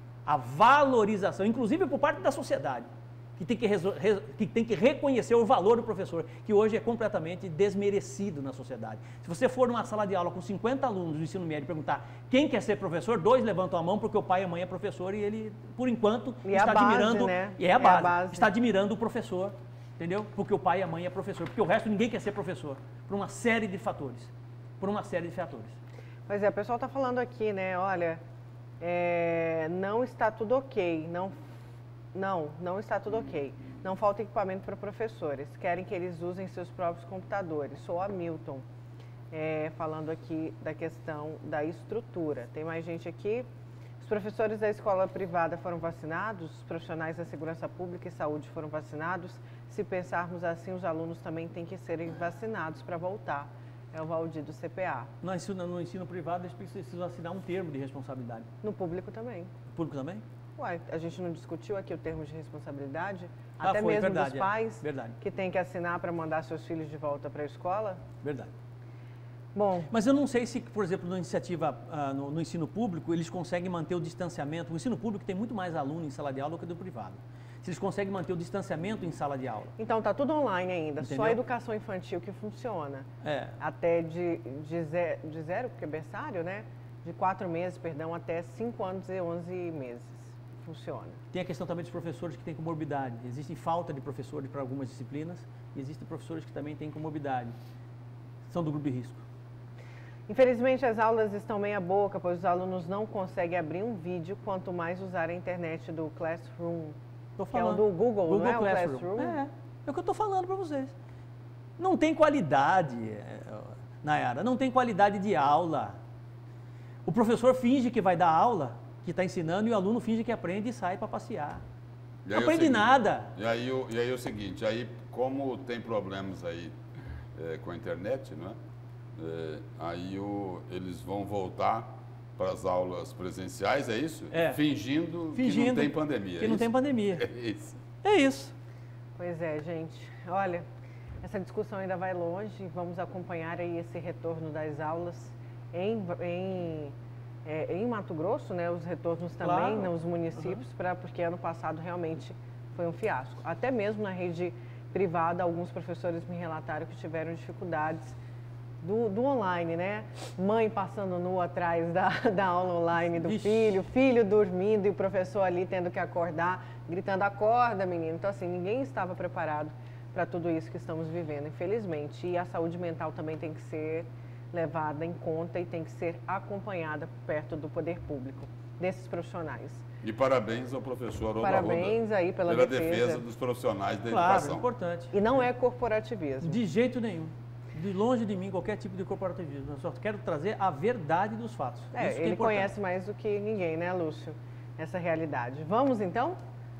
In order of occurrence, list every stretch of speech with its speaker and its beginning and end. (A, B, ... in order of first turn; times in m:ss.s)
0:00.2-0:25.8 A
0:16.4-0:18.5 B
0:26.3-0:28.2 B
0:28.8-0:31.4 B
0:32.1-0:38.6 B
0:39.3-0:43.5 B
0:44.0-0:55.1 B
0:55.2-0:58.5 A
0:58.6-0:59.5 B
0:59.7-1:00.2 A
1:00.6-1:08.0 B
1:03.6-1:05.2 A
1:08.2-1:08.5 A
1:09.5-1:09.9 B
1:09.9-1:19.7 A
1:19.8-1:31.2 B
1:21.0-1:21.4 A
1:23.2-1:23.6 A
1:31.3-1:37.6 A
1:38.5-1:39.2 A
1:40.3-1:47.0 B
1:47.4-1:50.9 A
1:47.5-1:49.4 B
1:51.8-1:56.0 A
1:57.1-2:01.6 A
2:02.2-2:06.8 C
2:02.3-2:03.3 A
2:07.4-2:08.6 C
2:09.2-2:17.8 C
2:14.3-2:14.6 A
2:15.3-2:17.3 A
2:18.0-2:18.5 A
2:19.2-2:20.7 B
2:21.2-2:26.9 B
2:27.4-2:38.2 B
2:29.4-2:30.6 A
2:38.8-2:59.8 B
2:43.2-2:43.8 A
3:00.0-3:04.7 C
3:01.4-3:03.2 B
3:04.1-3:05.4 A
3:05.1-3:06.6 B
3:06.4-3:12.7 A
3:11.9-3:16.4 B